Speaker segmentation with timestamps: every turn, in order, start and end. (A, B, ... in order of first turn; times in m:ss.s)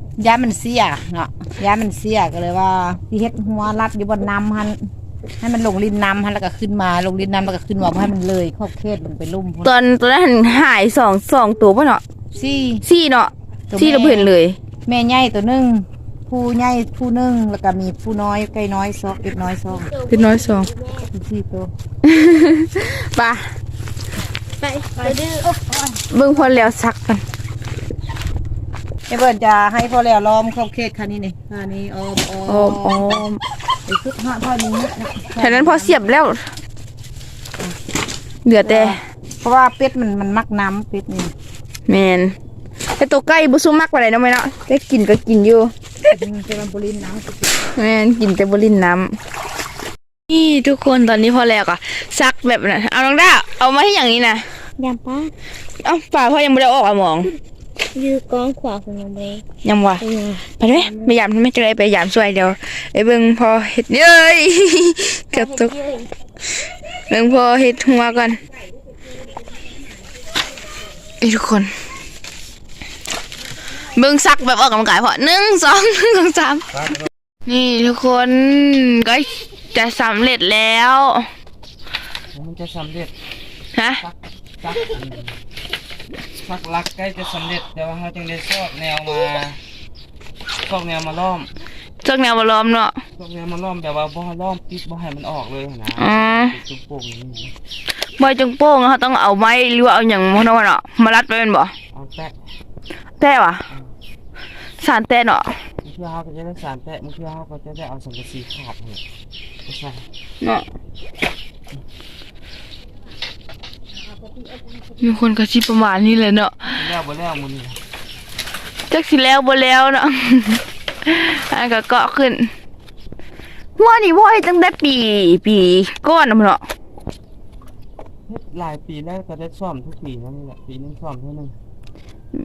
0:00.2-0:04.8 A
0:05.4-0:09.7 A
0:09.6-0:12.0 B
0:12.4-0:12.8 A
0:12.8-0:14.6 B
0:13.7-0:14.3 A
0:14.9-0:19.9 A
0:19.5-0:21.1 C
0:20.1-0:20.7 B
0:21.1-0:21.7 A
0:22.0-0:23.5 B
0:24.6-0:25.5 C
0:25.0-0:26.0 A
0:26.1-0:27.2 B
0:29.1-0:33.2 A
0:32.5-0:33.4 B
0:33.9-0:36.0 A
0:35.4-0:36.5 B
0:38.4-0:39.0 B
0:38.6-0:41.3 A
0:41.9-0:42.3 B
0:43.0-0:46.1 B
0:46.1-0:47.5 A
0:47.8-0:49.2 B
0:50.3-0:54.4 B
0:54.8-0:55.3 C
0:55.8-0:57.3 B
0:57.9-0:59.4 C
0:59.6-1:00.0 B
1:00.0-1:01.1 C
1:00.6-1:05.7 B
1:05.3-1:06.1 C
1:07.1-1:08.4 B
1:11.2-1:11.7 B
1:13.9-1:16.7 B
1:16.7-1:17.1 D
1:17.5-1:21.3 B
1:22.3-1:23.1 D
1:23.8-1:24.0 B
1:24.0-1:25.4 D
1:26.4-1:29.6 D
1:30.6-1:31.5 D
1:32.0-1:33.0 B
1:33.2-1:37.5 D
1:36.0-1:36.5 B
1:38.2-1:41.7 B
1:41.9-1:42.4 D
1:43.2-1:43.6 B
1:44.8-1:45.6 B
1:45.8-1:49.0 D
1:49.6-1:50.1 D
1:50.4-1:50.7 B
1:55.0-1:56.7 B
1:56.7-1:57.8 D
1:58.9-2:02.5 B
2:03.8-2:06.6 B
2:08.3-2:11.6 D